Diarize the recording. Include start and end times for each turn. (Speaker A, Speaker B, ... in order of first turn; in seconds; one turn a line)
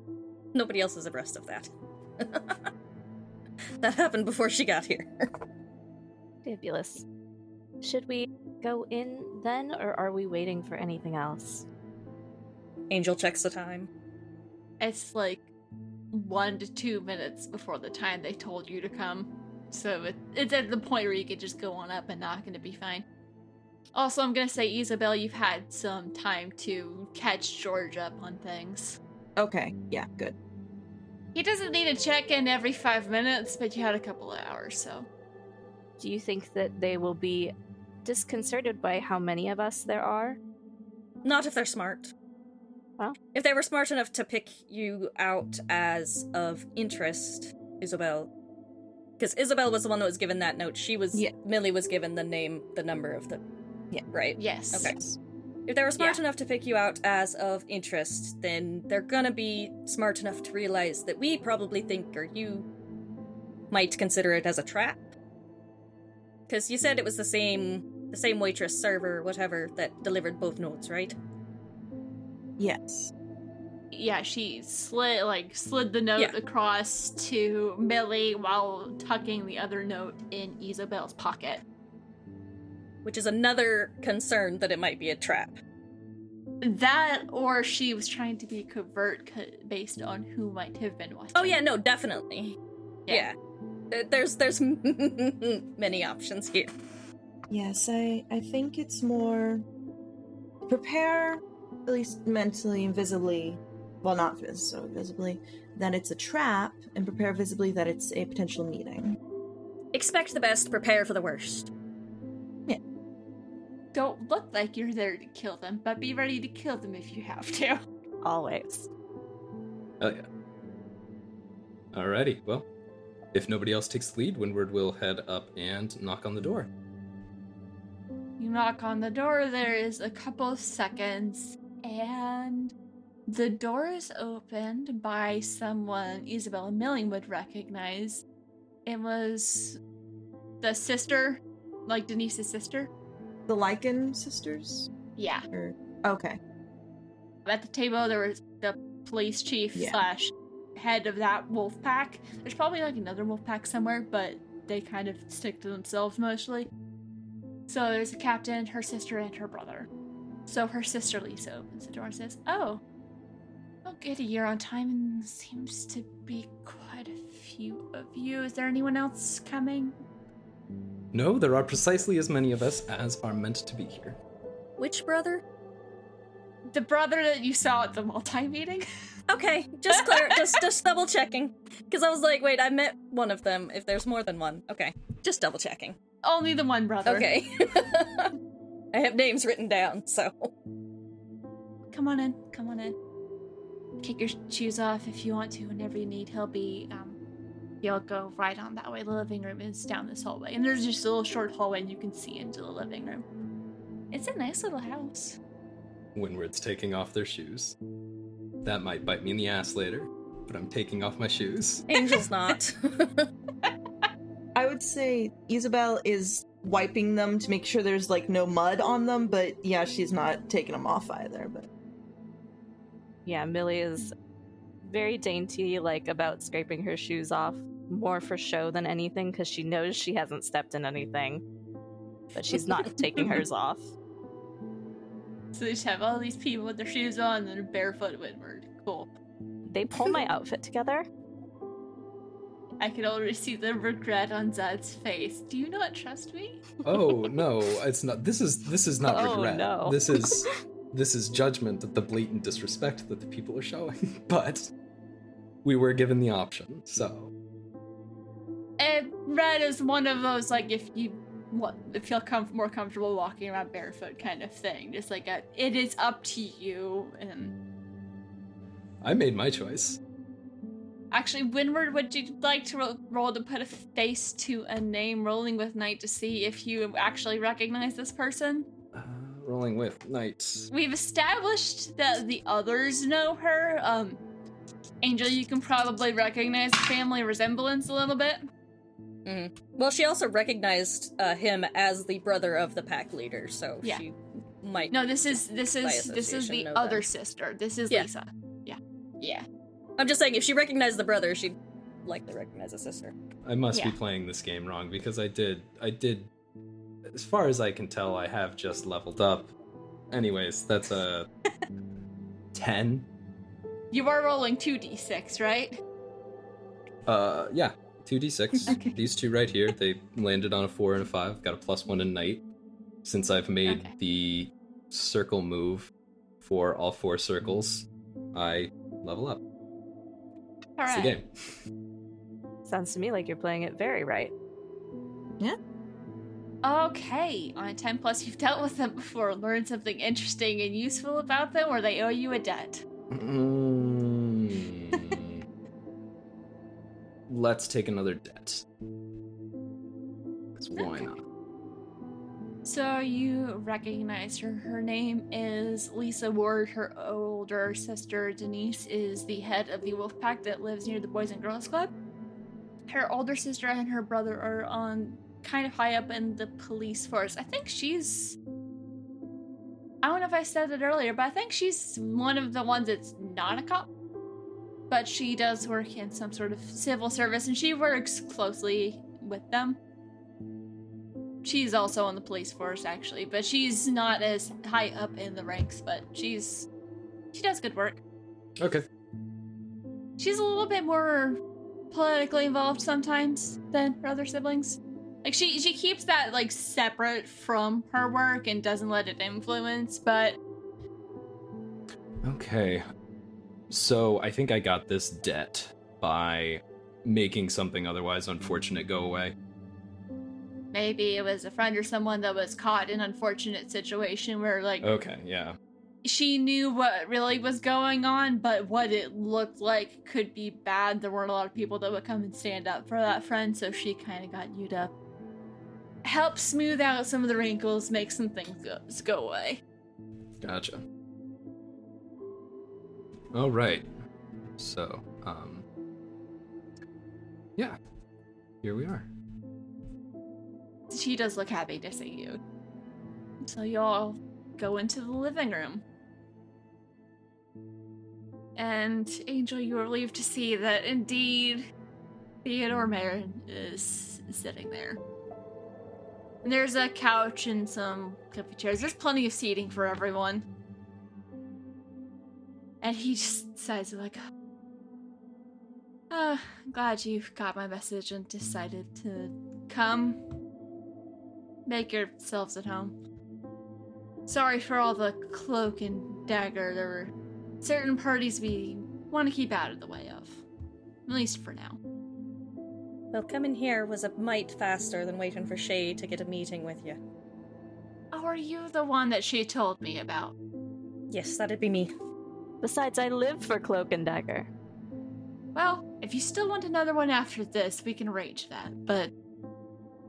Speaker A: 0.5-2.6
Speaker A: 3.8-5.2
Speaker B: 6.4-7.0
Speaker B: 7.8-11.7
Speaker A: 12.9-13.9
Speaker C: 14.8-15.4
Speaker C: 16.1-23.0
Speaker C: 23.9-29.0
Speaker D: 29.4-30.3
Speaker C: 31.3-35.1
Speaker B: 36.0-37.5
Speaker B: 38.0-40.4
Speaker A: 41.2-42.1
Speaker A: 43.3-48.3
Speaker A: 49.2-53.4
Speaker A: 54.1-55.0
Speaker C: 54.4-55.0
Speaker A: 55.7-62.6
Speaker A: 63.7-65.1
Speaker A: 66.5-71.1
Speaker D: 72.6-73.1
Speaker C: 73.9-81.6
Speaker A: 83.0-85.6
Speaker C: 86.6-91.6
Speaker A: 91.3-92.6
Speaker A: 93.1-93.3
Speaker A: 93.9-96.7
Speaker D: 97.5-99.6
Speaker D: 100.7-109.2
Speaker A: 109.9-111.7
Speaker C: 113.9-117.8
Speaker B: 118.2-118.9
Speaker E: 121.9-122.7
Speaker E: 123.3-126.7
Speaker C: 128.4-132.7
Speaker C: 133.3-138.2
Speaker C: 138.8-139.8
Speaker C: 140.6-142.9
Speaker D: 143.5-144.9
Speaker C: 145.2-145.4
Speaker D: 145.5-146.4
Speaker C: 147.4-156.7
Speaker D: 149.7-150.0
Speaker C: 157.7-159.9
Speaker C: 160.5-162.8
Speaker C: 163.8-169.9
Speaker E: 171.1-174.2
Speaker A: 174.8-175.4
Speaker C: 176.7-178.8
Speaker A: 179.3-186.0
Speaker C: 179.9-180.6
Speaker C: 186.2-187.3
Speaker A: 187.0-188.3
Speaker A: 188.9-190.5
Speaker C: 191.9-192.9
Speaker C: 194.0-197.2
Speaker C: 197.8-203.2
Speaker C: 204.1-205.4
Speaker E: 206.1-207.8
Speaker E: 208.6-211.8
Speaker A: 211.9-213.3
Speaker D: 214.5-221.7
Speaker B: 223.2-224.1
Speaker B: 224.8-231.4
Speaker B: 232.3-233.9
Speaker C: 235.5-239.1
Speaker B: 239.7-241.0
Speaker C: 242.8-246.7
Speaker E: 246.8-254.7
Speaker B: 249.1-250.5
Speaker E: 255.6-257.3
Speaker C: 258.8-267.5
Speaker E: 269.0-270.0
Speaker C: 271.1-278.6
Speaker E: 278.9-280.7
Speaker C: 280.7-284.2
Speaker C: 285.0-288.4
Speaker A: 289.2-297.1
Speaker C: 294.9-299.4
Speaker A: 300.0-303.1
Speaker E: 303.4-306.3
Speaker C: 303.7-304.0
Speaker E: 307.1-309.5
Speaker E: 310.1-311.3
Speaker E: 312.5-313.1
Speaker C: 313.9-315.7
Speaker E: 317.1-322.4
Speaker C: 318.6-318.9
Speaker E: 323.0-325.9
Speaker C: 323.6-323.9
Speaker E: 326.4-329.4
Speaker C: 330.8-331.1
Speaker E: 330.9-331.3
Speaker B: 332.6-334.3
Speaker C: 336.6-342.8
Speaker E: 343.1-345.4
Speaker E: 347.3-348.6
Speaker E: 350.6-351.2
Speaker C: 350.8-351.1
Speaker C: 352.6-361.9
Speaker C: 362.9-368.4
Speaker C: 370.0-373.9
Speaker C: 374.9-379.8
Speaker C: 381.4-386.7
Speaker C: 387.3-388.0
Speaker E: 388.6-388.8
Speaker C: 390.2-391.4
Speaker C: 391.9-400.4
Speaker E: 402.2-402.8
Speaker E: 403.7-409.3
Speaker C: 410.7-414.9
Speaker E: 414.8-415.6
Speaker C: 416.0-424.9
Speaker C: 426.0-429.6
Speaker E: 430.4-430.8
Speaker E: 433.3-433.9
Speaker E: 434.6-435.6
Speaker E: 438.6-439.1
Speaker C: 440.9-442.4
Speaker C: 443.4-445.8
Speaker C: 448.6-451.7
Speaker C: 452.4-455.0
Speaker C: 456.4-460.4
Speaker C: 462.8-464.2
Speaker C: 466.1-470.2
Speaker C: 471.6-472.9
Speaker C: 474.3-480.4
Speaker C: 481.1-481.8
Speaker A: 483.1-487.0
Speaker C: 488.1-490.3
Speaker A: 491.1-491.9
Speaker B: 492.6-494.5
Speaker C: 495.5-499.1